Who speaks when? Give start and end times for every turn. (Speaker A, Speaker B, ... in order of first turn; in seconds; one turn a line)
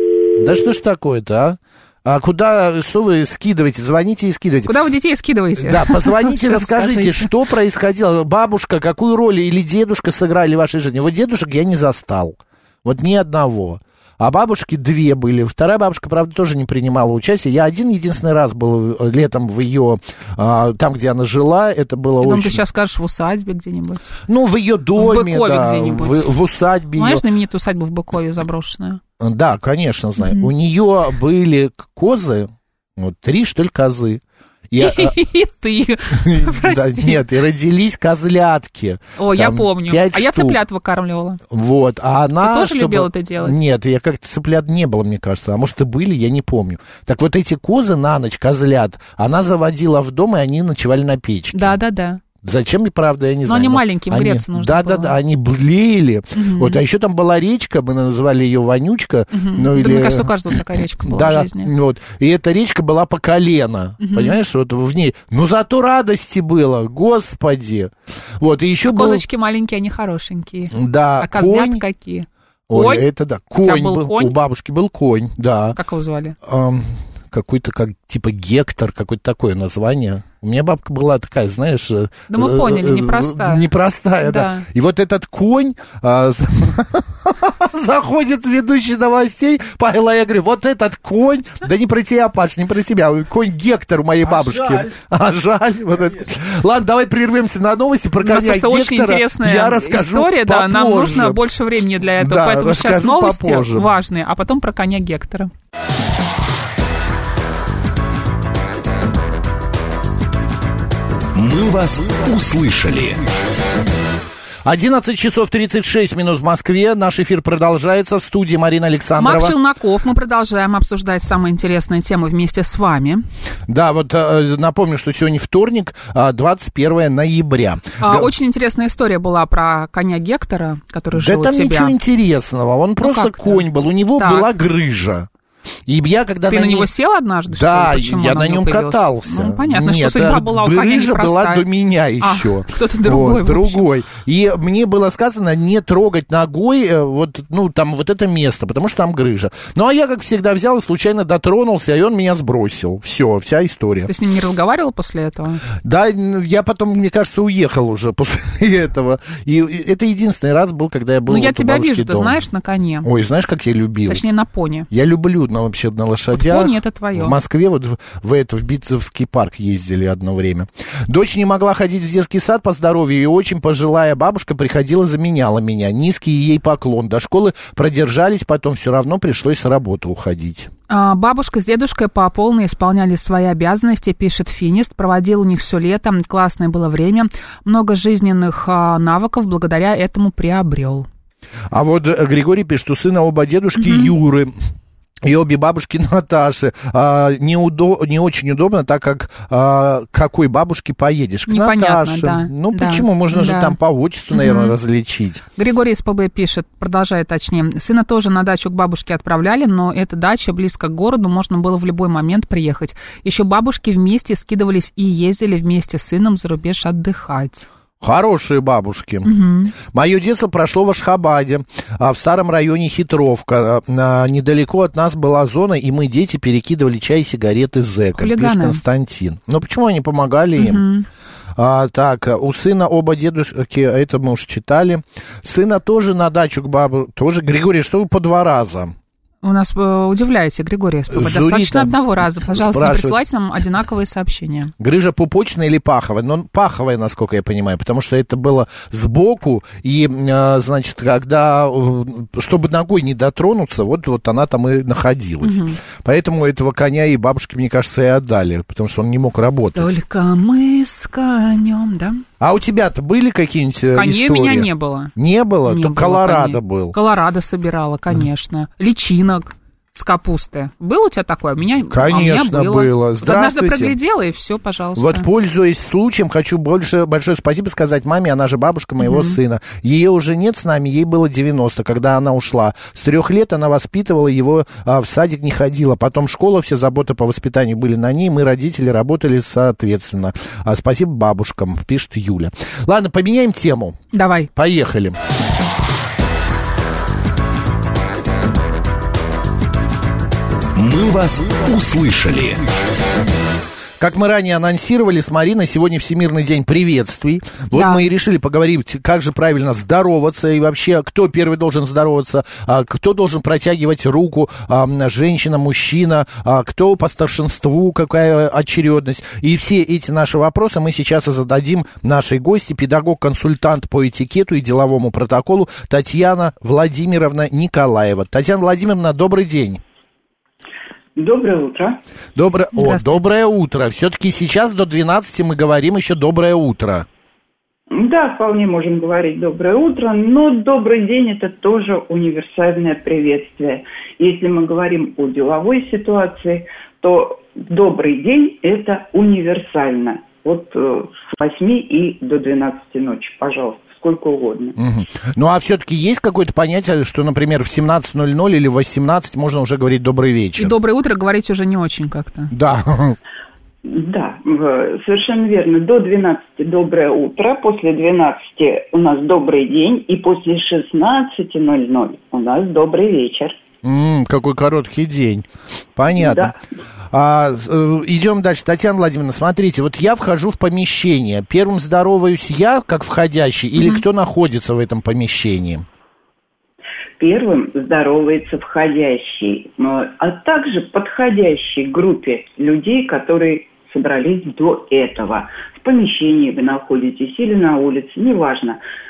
Speaker A: 0.3-4.7
Speaker B: 4.7-7.3
Speaker A: 5.6-22.6
Speaker B: 22.2-24.1
Speaker A: 24.3-27.2
Speaker B: 24.9-26.3
Speaker B: 26.9-29.0
Speaker A: 29.2-35.1
Speaker B: 30.2-30.5
Speaker B: 34.8-37.2
Speaker A: 36.1-40.6
Speaker B: 39.2-41.4
Speaker A: 41.5-51.8
Speaker B: 42.4-43.6
Speaker B: 51.5-52.2
Speaker A: 52.4-69.2
Speaker B: 53.5-55.1
Speaker B: 56.4-56.8
Speaker B: 59.3-61.7
Speaker B: 64.0-64.4
Speaker B: 68.9-73.1
Speaker A: 70.7-71.8
Speaker A: 72.7-75.8
Speaker B: 73.6-74.4
Speaker B: 75.8-76.3
Speaker A: 76.4-101.4
Speaker B: 82.3-83.6
Speaker B: 84.2-84.7
Speaker B: 98.2-105.5
Speaker A: 102.2-103.9
Speaker C: 111.3-113.2
Speaker A: 114.6-119.5
Speaker B: 119.2-123.2
Speaker A: 123.7-128.3
Speaker B: 128.0-131.9
Speaker A: 131.1-135.3
Speaker B: 133.0-134.5
Speaker A: 135.9-136.9
Speaker B: 136.5-141.6
Speaker A: 137.5-154.1
Speaker B: 142.2-143.9
Speaker B: 154.1-155.6
Speaker A: 155.8-162.4
Speaker B: 161.3-163.1
Speaker A: 163.0-164.2
Speaker B: 164.1-164.9
Speaker A: 164.9-180.7
Speaker B: 166.3-167.4
Speaker B: 180.9-191.1
Speaker A: 191.7-194.5
Speaker B: 193.8-194.1
Speaker A: 195.2-205.4
Speaker B: 201.5-203.8
Speaker B: 204.3-204.8
Speaker B: 205.6-217.7
Speaker A: 218.0-230.8
Speaker B: 219.2-219.7
Speaker B: 228.2-228.8
Speaker B: 230.6-231.1
Speaker A: 231.6-238.9
Speaker B: 239.4-244.7
Speaker A: 241.1-243.2
Speaker A: 244.8-259.9
Speaker B: 255.4-255.8
Speaker B: 259.8-262.2
Speaker A: 262.4-266.9
Speaker B: 263.9-265.1
Speaker B: 265.6-275.3
Speaker A: 271.9-274.0
Speaker A: 274.9-294.0
Speaker B: 279.0-279.4
Speaker B: 294.1-294.5
Speaker A: 294.5-295.2
Speaker C: 300.8-302.6
Speaker A: 304.0-329.8
Speaker B: 307.7-308.1
Speaker D: 331.1-332.0
Speaker A: 332.4-337.1
Speaker B: 332.7-333.2
Speaker D: 337.9-354.8
Speaker A: 354.8-360.7
Speaker B: 360.6-362.5
Speaker A: 362.5-363.2
Speaker D: 363.9-373.6
Speaker A: 373.8-376.6
Speaker D: 376.2-376.5
Speaker A: 377.1-385.9
Speaker B: 383.8-384.0
Speaker D: 387.2-398.8